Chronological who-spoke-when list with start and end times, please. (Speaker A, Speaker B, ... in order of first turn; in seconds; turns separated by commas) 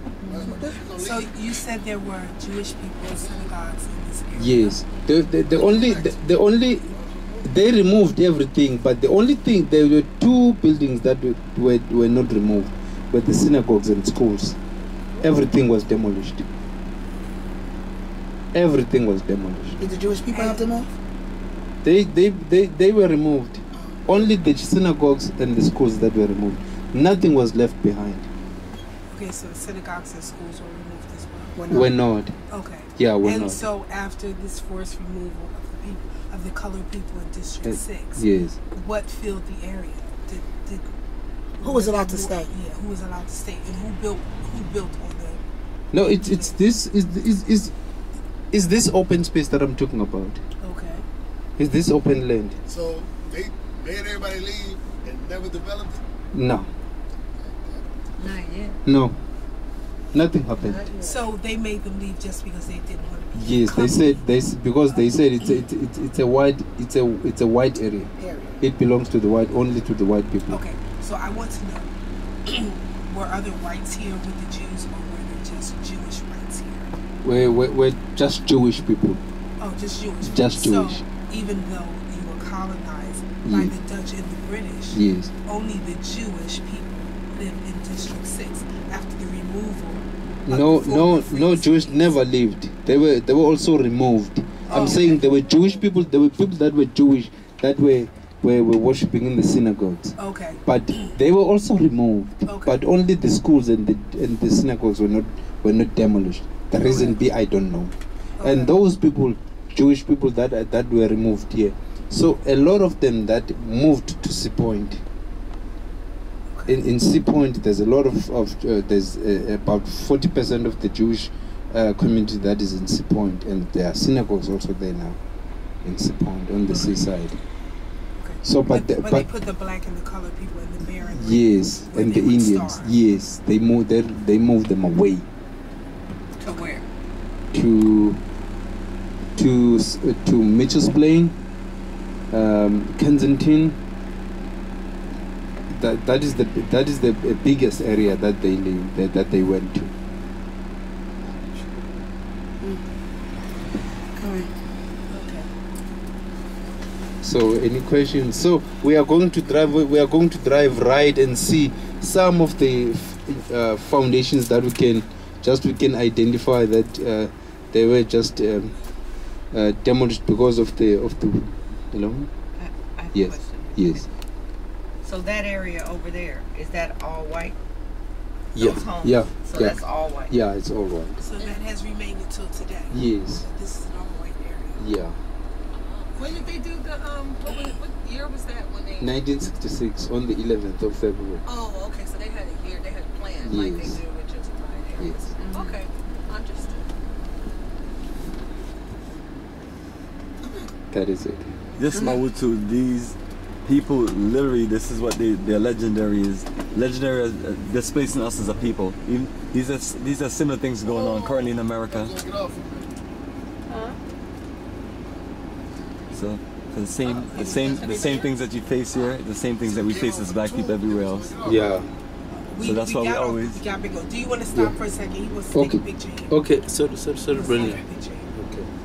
Speaker A: 0.2-0.8, Speaker B: 0.2-1.4, Speaker C: 0.9-4.8, Speaker D: 4.3-14.6, Speaker B: 5.5-6.2, Speaker D: 15.2-16.5, Speaker D: 18.5-19.9, Speaker A: 19.8-20.9, Speaker C: 20.3-20.6, Speaker D: 21.8-28.3, Speaker C: 29.1-31.6, Speaker A: 31.6-31.9, Speaker D: 31.7-32.4, Speaker C: 32.5-40.9, Speaker D: 33.0-33.6, Speaker D: 37.6-38.6, Speaker C: 41.6-45.4, Speaker A: 41.6-42.5, Speaker D: 45.9-47.7, Speaker C: 46.0-46.6, Speaker D: 48.5-50.4, Speaker C: 50.6-51.0, Speaker D: 51.6-52.6, Speaker B: 52.7-56.0, Speaker D: 56.3-56.7, Speaker B: 57.4-57.9, Speaker E: 58.2-58.7, Speaker D: 58.8-59.2, Speaker D: 60.1-60.9, Speaker C: 60.9-64.2, Speaker D: 63.3-70.6, Speaker A: 68.2-68.6, Speaker C: 70.5-71.9, Speaker C: 72.5-76.9, Speaker D: 77.2-79.2, Speaker C: 79.6-92.2, Speaker D: 80.2-81.0, Speaker D: 83.4-83.7, Speaker D: 84.9-85.3, Speaker D: 90.5-115.0, Speaker C: 94.7-95.2, Speaker C: 100.2-100.6, Speaker C: 102.5-102.8, Speaker C: 106.8-107.2, Speaker C: 108.4-108.7, Speaker C: 116.5-116.8, Speaker D: 116.7-125.2, Speaker D: 125.8-127.4, Speaker C: 126.7-127.0, Speaker C: 128.2-133.0, Speaker D: 128.4-129.3, Speaker D: 131.0-135.3, Speaker C: 136.4-136.8, Speaker F: 136.4-136.8, Speaker D: 137.5-138.2, Speaker D: 139.3-141.4, Speaker D: 142.3-143.8, Speaker D: 145.7-149.9, Speaker B: 151.2-152.0, Speaker A: 154.2-154.5, Speaker C: 155.1-155.5, Speaker D: 157.2-168.7, Speaker D: 169.5-172.3, Speaker F: 172.6-174.1, Speaker D: 173.1-174.1, Speaker F: 175.0-177.5, Speaker D: 178.5-181.2, Speaker F: 178.6-180.3, Speaker C: 181.2-184.9, Speaker D: 182.9-183.4, Speaker D: 184.8-185.2, Speaker E: 185.7-189.1, Speaker D: 189.0-191.4, Speaker E: 191.4-196.8, Speaker D: 193.4-194.0, Speaker D: 195.0-195.3, Speaker F: 195.4-195.8, Speaker A: 200.4-200.7, Speaker D: 200.9-201.5, Speaker G: 201.8-212.2, Speaker B: 210.8-212.9, Speaker G: 216.1-221.4, Speaker E: 217.6-217.9, Speaker B: 219.6-221.9, Speaker D: 221.4-221.9, Speaker C: 222.3-226.4, Speaker G: 222.6-223.6, Speaker D: 225.5-227.8, Speaker C: 227.3-228.3, Speaker D: 228.3-228.7